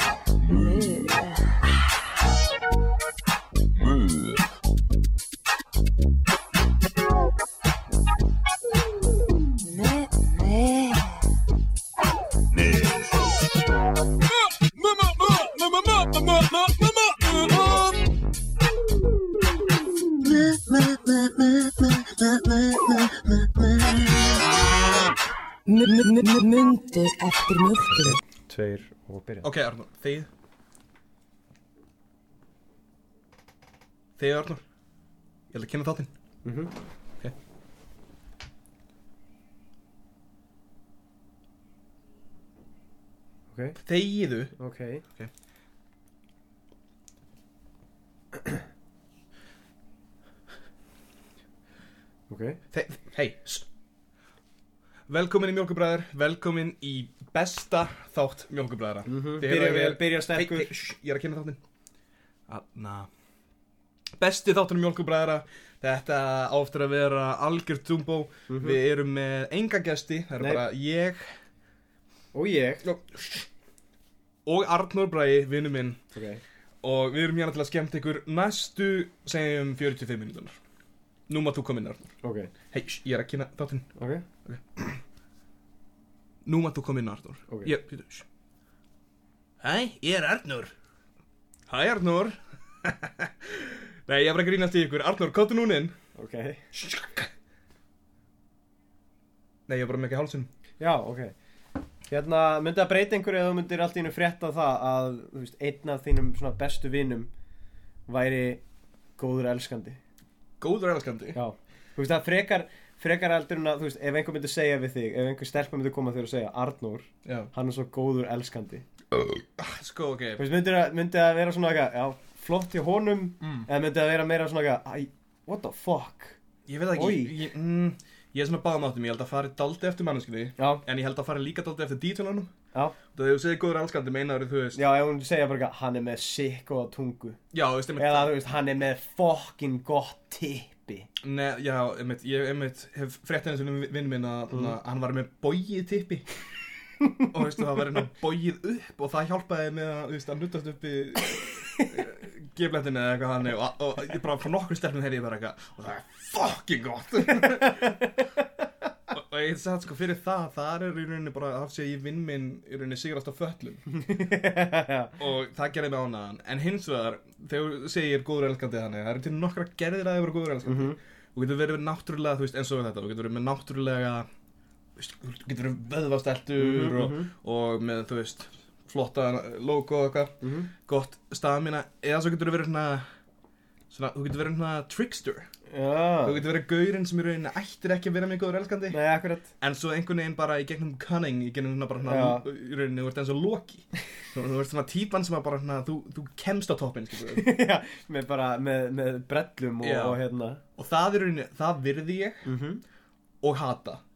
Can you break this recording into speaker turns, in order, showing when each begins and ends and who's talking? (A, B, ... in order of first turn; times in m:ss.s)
0:00.4-0:01.6 A
0:09.6-0:11.2 A
0:14.8-0:18.0 A
0:20.2-0:24.4 A
0:25.7-0:28.2 A
0:27.9-0:29.5 B
0:29.4-0:30.3 C
0:34.2-0:34.6 C
0:35.5-0:36.1 C
0:36.4-0:36.7 B
0:43.8-0:44.5 C
0:44.6-0:45.0 B
0:52.3-0:52.6 B
0:52.7-0:53.7 C
0:55.1-1:01.6 C
0:59.1-1:00.7 B
1:02.5-1:03.1 C
1:04.2-1:11.2 C
1:08.5-1:08.8 B
1:12.3-1:12.9 B
1:12.8-1:13.5 C
1:14.5-1:16.0 C
1:16.1-1:16.4 B
1:16.8-1:20.6 C
1:21.3-1:22.1 C
1:22.2-1:22.5 B
1:22.7-1:23.9 C
1:24.0-1:24.2 B
1:24.4-1:25.0 C
1:26.5-1:28.2 C
1:29.6-1:30.7 C
1:31.7-1:36.0 C
1:36.2-1:36.7 B
1:36.7-1:37.3 C
1:39.7-1:40.5 C
1:40.8-1:41.3 B
1:42.1-1:47.3 B
1:48.1-1:48.6 B
1:49.2-1:50.0 B
1:50.6-1:51.4 C
1:51.3-1:58.9 B
1:57.2-1:57.5 C
1:59.6-2:00.4 C
2:00.4-2:06.4 B
2:06.7-2:12.5 C
2:07.0-2:07.4 B
2:10.6-2:10.8 B
2:13.1-2:14.8 C
2:14.8-2:17.4 B
2:17.5-2:18.3 C
2:18.0-2:21.1 B
2:21.2-2:26.2 C
2:27.3-2:38.2 C
2:39.1-2:43.8 C
2:44.0-2:45.2 B
2:45.2-2:54.3 C
2:50.6-2:51.0 B
2:55.0-3:00.4 C
2:56.6-2:57.3 B
3:00.4-3:00.7 B
3:00.9-3:03.0 C
3:03.9-3:05.5 C
3:05.7-3:06.4 B
3:06.2-3:09.0 C
3:08.9-3:09.5 B
3:09.6-3:17.5 C
3:12.1-3:12.4 B
3:17.3-3:20.6 B
3:19.8-3:20.2 C
3:20.8-3:22.5 C
3:22.4-3:22.8 B
3:23.4-3:24.0 C